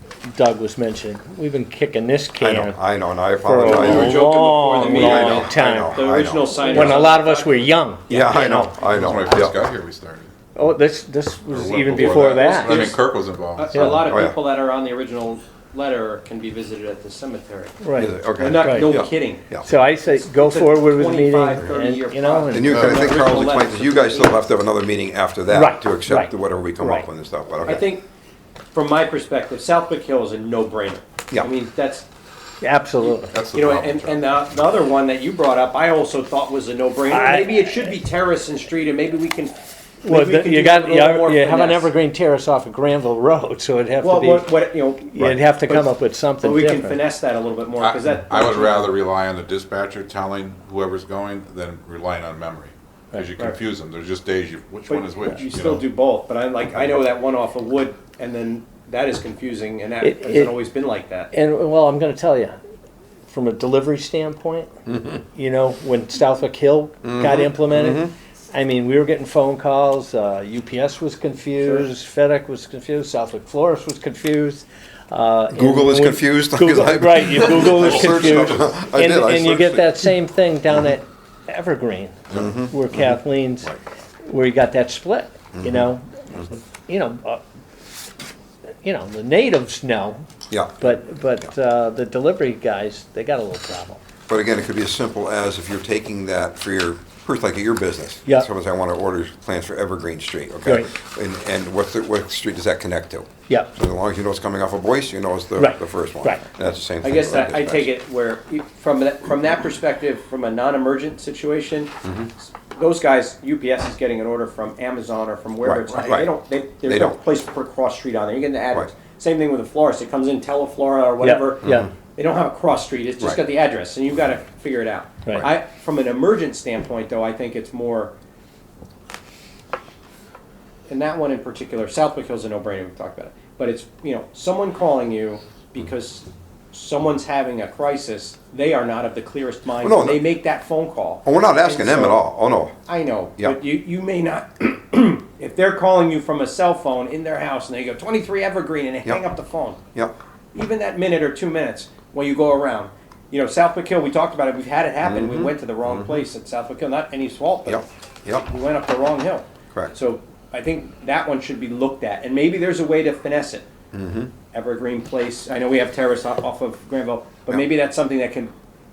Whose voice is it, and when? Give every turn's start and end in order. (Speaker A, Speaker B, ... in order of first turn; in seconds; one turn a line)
Speaker A: 0.3-2.8
Speaker B: 2.4-4.3
Speaker A: 3.3-8.9
Speaker C: 3.6-8.4
Speaker B: 4.8-6.8
Speaker B: 8.1-9.6
Speaker D: 8.9-10.3
Speaker A: 10.6-12.9
Speaker D: 11.5-13.8
Speaker C: 12.0-13.0
Speaker C: 13.6-17.8
Speaker A: 13.7-14.1
Speaker B: 14.0-14.4
Speaker A: 17.8-18.9
Speaker B: 18.0-19.7
Speaker C: 18.4-24.4
Speaker A: 19.5-23.0
Speaker B: 22.5-27.9
Speaker D: 22.7-23.1
Speaker A: 25.5-27.1
Speaker C: 27.6-28.1
Speaker C: 28.7-32.1
Speaker A: 32.6-33.3
Speaker C: 33.0-41.9
Speaker D: 33.2-34.3
Speaker A: 37.1-37.9
Speaker A: 40.0-47.0
Speaker C: 44.0-49.0
Speaker D: 47.8-55.9
Speaker C: 54.9-61.3
Speaker A: 60.0-60.5
Speaker A: 61.3-62.6
Speaker A: 63.3-64.7
Speaker B: 64.9-65.2
Speaker A: 65.3-87.4
Speaker B: 67.0-68.1
Speaker B: 75.5-80.1
Speaker D: 77.9-78.5
Speaker B: 82.3-83.8
Speaker B: 85.5-86.5
Speaker A: 88.8-90.2
Speaker B: 90.5-91.5
Speaker A: 90.8-94.0
Speaker B: 94.3-107.9
Speaker A: 105.6-106.4
Speaker C: 107.0-111.9
Speaker B: 112.0-112.3
Speaker C: 112.7-128.1
Speaker B: 115.6-116.3
Speaker B: 116.9-117.2
Speaker A: 121.2-121.9
Speaker B: 121.6-121.9
Speaker C: 130.9-142.3
Speaker B: 139.8-140.2
Speaker B: 141.2-142.7
Speaker C: 142.9-149.8
Speaker C: 150.5-163.7
Speaker B: 155.0-156.2
Speaker B: 157.7-158.5
Speaker B: 163.9-164.3
Speaker C: 164.5-168.5